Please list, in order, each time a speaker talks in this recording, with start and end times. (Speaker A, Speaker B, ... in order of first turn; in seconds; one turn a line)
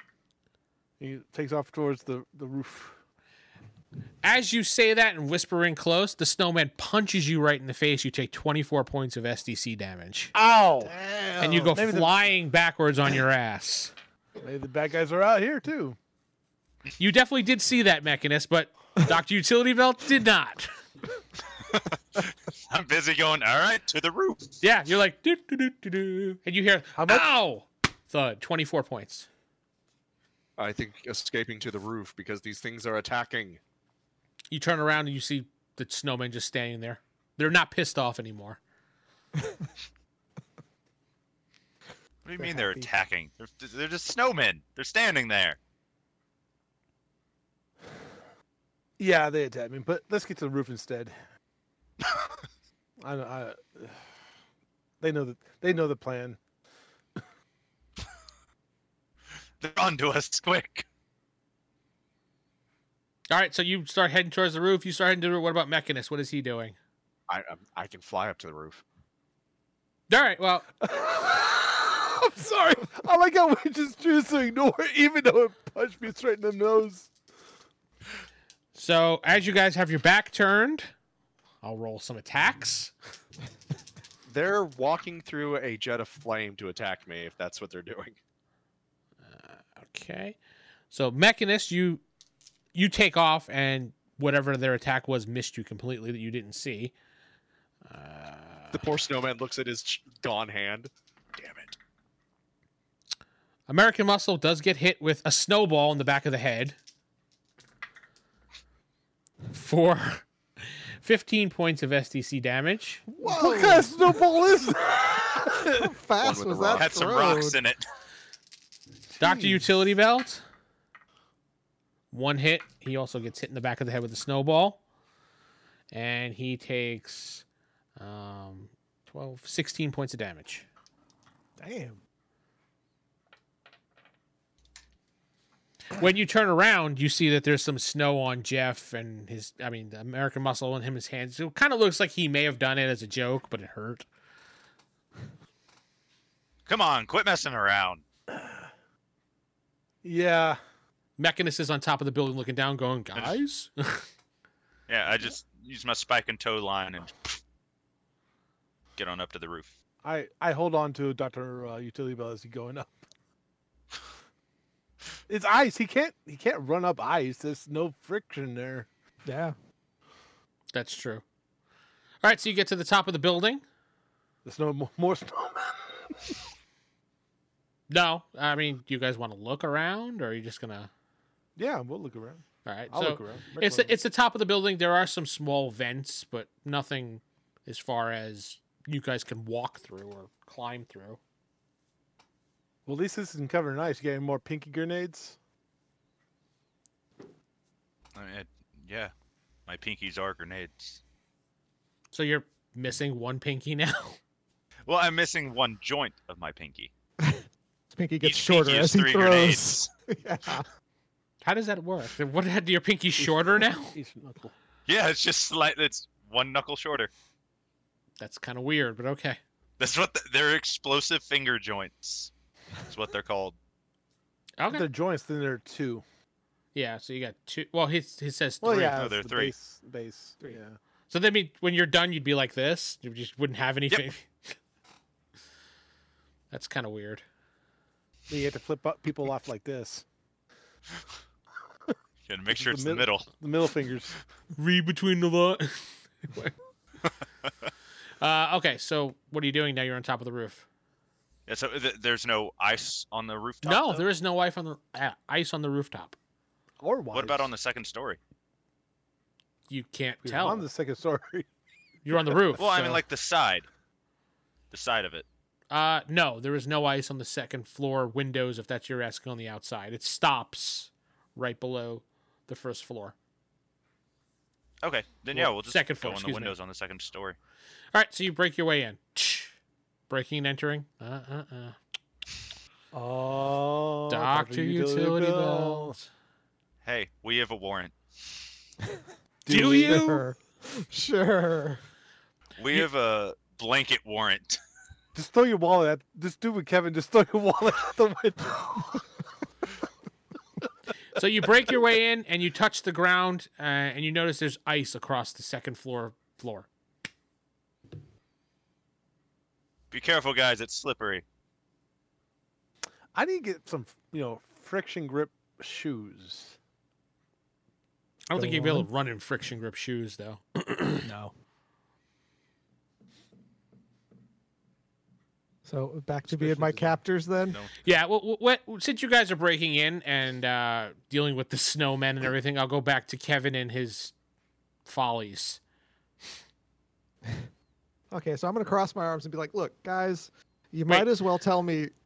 Speaker A: 1.0-3.0
Speaker B: 4.2-10.3
Speaker A: 10.3-12.2
Speaker B: 11.4-13.9
Speaker A: 14.4-16.0
Speaker B: 17.0-20.7
Speaker C: 21.7-24.6
Speaker B: 24.6-29.3
Speaker A: 26.9-27.3
Speaker D: 30.6-33.6
Speaker B: 34.5-38.6
Speaker C: 42.2-45.6
Speaker E: 42.4-42.9
Speaker A: 49.0-51.1
Speaker A: 53.0-54.0
Speaker A: 55.0-56.4
Speaker C: 59.6-60.9
Speaker B: 63.3-66.8
Speaker D: 67.3-68.8
Speaker B: 70.1-70.7
Speaker A: 70.9-77.1
Speaker B: 78.8-80.9
Speaker B: 81.6-82.9
Speaker D: 84.3-88.2
Speaker B: 89.3-90.4
Speaker B: 90.9-92.0
Speaker B: 92.8-96.9
Speaker B: 97.9-98.8
Speaker D: 98.7-100.9
Speaker B: 103.7-106.8
Speaker B: 109.5-110.3
Speaker B: 111.0-113.0
Speaker E: 113.1-114.0
Speaker A: 113.2-115.9
Speaker E: 115.6-117.6
Speaker D: 116.2-117.0
Speaker C: 116.8-117.8
Speaker B: 119.2-120.4
Speaker A: 119.2-119.7
Speaker B: 122.1-124.8
Speaker B: 125.9-127.5
Speaker B: 128.0-130.7
Speaker E: 131.6-132.0
Speaker B: 135.9-144.1
Speaker C: 146.7-148.0
Speaker A: 150.0-150.6
Speaker B: 151.2-154.1
Speaker C: 154.9-157.4
Speaker C: 159.0-159.8
Speaker A: 160.0-163.0
Speaker A: 165.3-168.9
Speaker E: 169.2-169.6
Speaker B: 170.7-171.2
Speaker B: 172.2-173.6
Speaker A: 174.4-176.3
Speaker B: 177.9-180.9
Speaker A: 181.6-183.9
Speaker B: 182.7-191.2
Speaker A: 192.9-195.4
Speaker C: 198.2-199.1
Speaker C: 199.7-201.0
Speaker B: 202.1-204.2
Speaker C: 204.9-206.9
Speaker E: 207.2-210.7
Speaker C: 208.2-209.9
Speaker B: 211.4-214.0
Speaker A: 213.2-214.5
Speaker C: 214.9-217.1
Speaker B: 218.2-219.4
Speaker C: 219.8-223.6
Speaker B: 224.6-224.9
Speaker A: 224.7-226.0
Speaker B: 226.8-229.0
Speaker A: 228.6-230.8
Speaker C: 228.7-229.6
Speaker B: 231.1-234.5
Speaker B: 236.5-237.2
Speaker A: 238.3-240.1
Speaker C: 242.3-243.3
Speaker A: 242.5-244.2
Speaker B: 244.6-246.6
Speaker B: 248.2-250.7
Speaker C: 251.5-254.1
Speaker B: 253.6-256.2
Speaker A: 256.8-257.5
Speaker C: 257.1-258.2
Speaker B: 259.7-260.7
Speaker A: 260.2-261.5
Speaker B: 262.1-262.7
Speaker A: 262.1-263.0
Speaker C: 262.6-263.7
Speaker C: 264.7-265.3
Speaker B: 265.7-273.1
Speaker C: 274.8-277.4
Speaker B: 275.4-276.5
Speaker B: 277.9-279.6
Speaker B: 280.1-281.8
Speaker A: 282.9-286.0
Speaker B: 284.1-286.0
Speaker C: 286.8-287.9
Speaker A: 289.5-290.1
Speaker B: 289.5-290.2
Speaker E: 289.5-291.8
Speaker C: 292.6-294.6
Speaker A: 295.1-299.0
Speaker B: 301.2-306.7
Speaker C: 309.9-311.2
Speaker A: 313.1-316.6
Speaker B: 318.3-321.1
Speaker E: 318.4-318.9
Speaker E: 321.0-321.3
Speaker E: 325.6-327.6
Speaker A: 326.3-327.0
Speaker B: 327.8-334.1
Speaker B: 334.9-335.6
Speaker E: 338.1-341.9